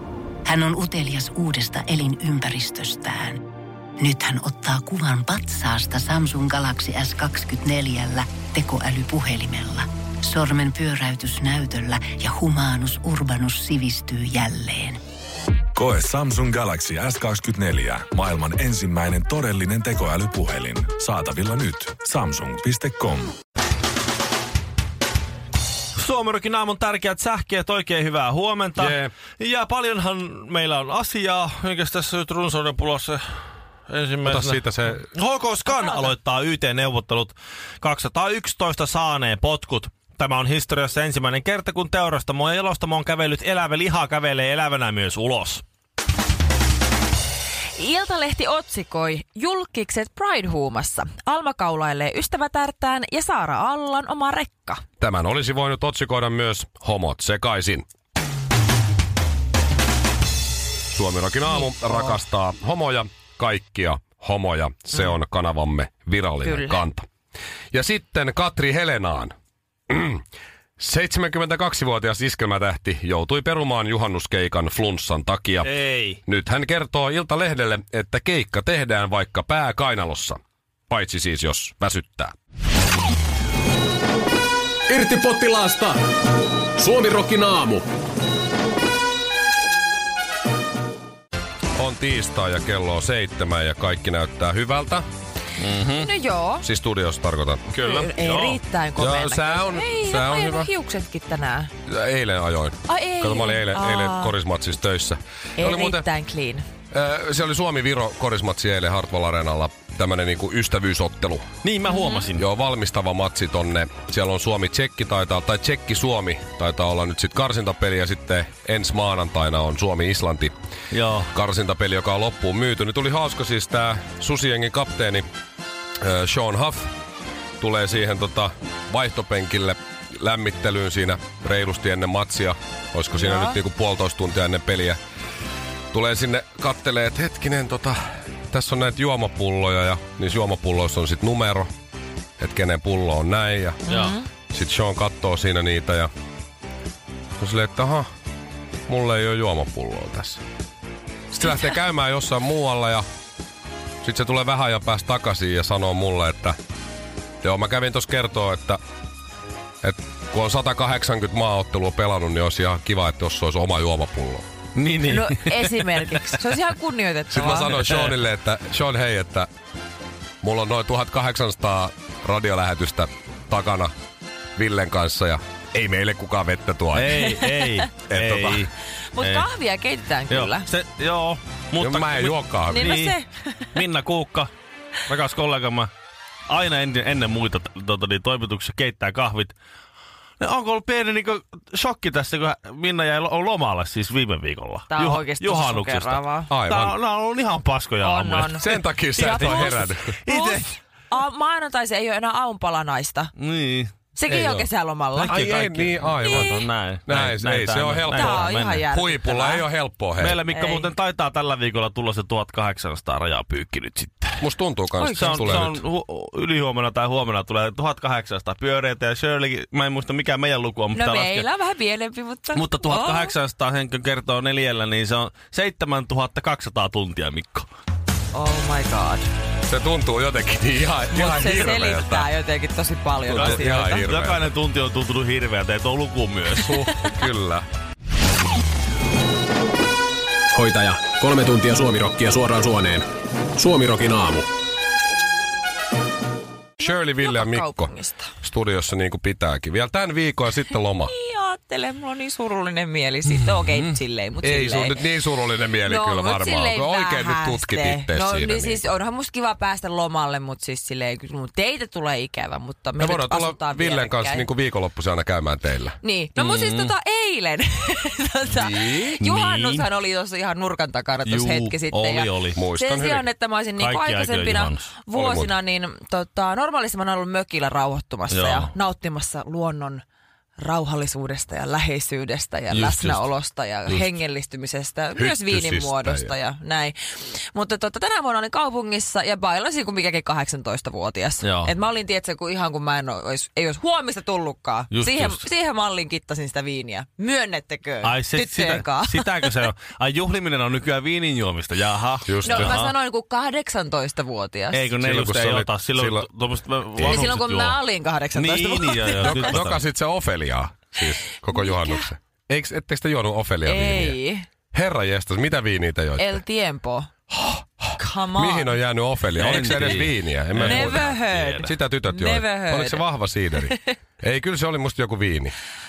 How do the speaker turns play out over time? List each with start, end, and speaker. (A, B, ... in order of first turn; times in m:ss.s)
0:00.4-0:03.4 A
0:04.0-0:15.0 A
0:15.8-0:23.3 B
0:26.0-0:45.6 C
0:28.8-0:29.1 D
0:34.2-0:35.1 D
0:35.7-0:36.0 E
0:47.8-0:54.8 E
0:55.0-0:57.8 D
1:00.9-1:07.0 D
1:06.4-1:06.8 E
1:07.7-1:09.3 D
1:09.9-1:10.2 D
1:10.8-1:15.7 D
1:15.6-1:16.2 C
1:16.2-1:20.4 D
1:20.9-1:22.3 D
1:24.9-1:26.0 F
1:26.8-1:27.8 F
1:31.7-1:35.0 D
1:35.6-1:36.1 C
1:35.9-1:36.6 E
1:36.6-1:38.1 D
1:37.7-1:41.7 E
1:38.2-1:38.6 C
1:39.0-1:40.7 D
1:41.9-1:46.1 D
1:42.9-1:44.3 E
1:45.6-1:46.6 E
1:46.9-1:51.4 D
1:51.6-1:52.4 C
1:51.9-1:52.2 E
1:52.4-2:00.5 D
2:00.9-2:01.3 C
2:01.3-2:05.2 D
2:06.0-2:06.9 D
2:07.6-2:15.0 D
2:13.1-2:13.6 E
2:15.9-2:21.7 D
2:22.4-2:24.0 D
2:23.9-2:24.2 E
2:23.9-2:24.1 C
2:24.5-2:26.1 D
2:27.4-2:28.1 D
2:28.9-2:30.4 D
2:31.3-2:33.0 D
2:34.0-2:36.6 D
2:37.4-2:38.8 D
2:39.8-2:44.4 D
2:44.8-2:46.3 C
2:45.0-2:47.7 E
2:47.3-2:49.5 D
2:47.5-2:48.2 C
2:50.4-2:53.9 D
2:54.6-2:57.2 D
2:56.9-2:59.5 C
2:58.1-2:58.7 D
2:59.1-3:00.6 E
3:00.3-3:03.1 C
3:01.8-3:03.0 D
3:02.7-3:03.8 E
3:03.7-3:04.5 C
3:05.1-3:05.9 C
3:06.5-3:09.5 C
3:10.4-3:18.6 C
3:14.9-3:16.5 E
3:16.5-3:16.9 D
3:18.0-3:23.3 E
3:18.5-3:20.2 D
3:19.2-3:20.7 C
3:23.4-3:24.6 C
3:24.2-3:25.4 E
3:25.2-3:28.8 C
3:25.2-3:30.4 D
3:26.2-3:26.6 E
3:28.1-3:29.7 E
3:30.2-3:34.4 C
3:30.5-3:30.9 E
3:34.4-3:35.8 D
3:35.0-3:35.6 E
3:35.2-3:41.4 C
3:40.9-3:43.3 E
3:42.5-3:47.6 C
3:48.3-3:49.3 E
3:49.7-3:52.3 D
3:51.1-3:54.0 E
3:53.3-3:54.5 D
3:53.3-3:56.7 C
3:56.5-3:57.6 D
3:56.7-3:57.2 E
4:00.5-4:04.5 F
4:06.8-4:11.1 D
4:06.8-4:08.3 E
4:11.0-4:15.1 E
4:14.4-4:18.8 D
4:15.8-4:24.5 E
4:23.0-4:26.0 D
4:26.0-4:40.0 E
4:26.4-4:26.9 C
4:28.5-4:29.2 D
4:29.2-4:29.9 C
4:31.2-4:32.6 C
4:32.5-4:33.3 D
4:33.8-4:34.9 C
4:35.1-4:35.5 D
4:38.3-4:38.7 C
4:40.6-4:59.6 E
4:42.7-4:43.2 C
4:45.2-4:46.3 D
4:51.4-4:51.7 C
4:54.9-4:55.4 C
4:58.0-5:02.9 C
5:02.2-5:02.8 D
5:02.4-5:04.9 E
5:04.7-5:07.8 C
5:05.0-5:06.3 D
5:07.0-5:07.3 D
5:07.0-5:09.6 E
5:08.3-5:09.8 C
5:09.2-5:14.2 D
5:11.5-5:12.1 E
5:13.6-5:14.5 E
5:14.7-5:16.4 D
5:16.2-5:17.1 E
5:17.3-5:25.5 D
5:18.0-5:18.7 E
5:19.4-5:21.7 C
5:20.6-5:23.9 E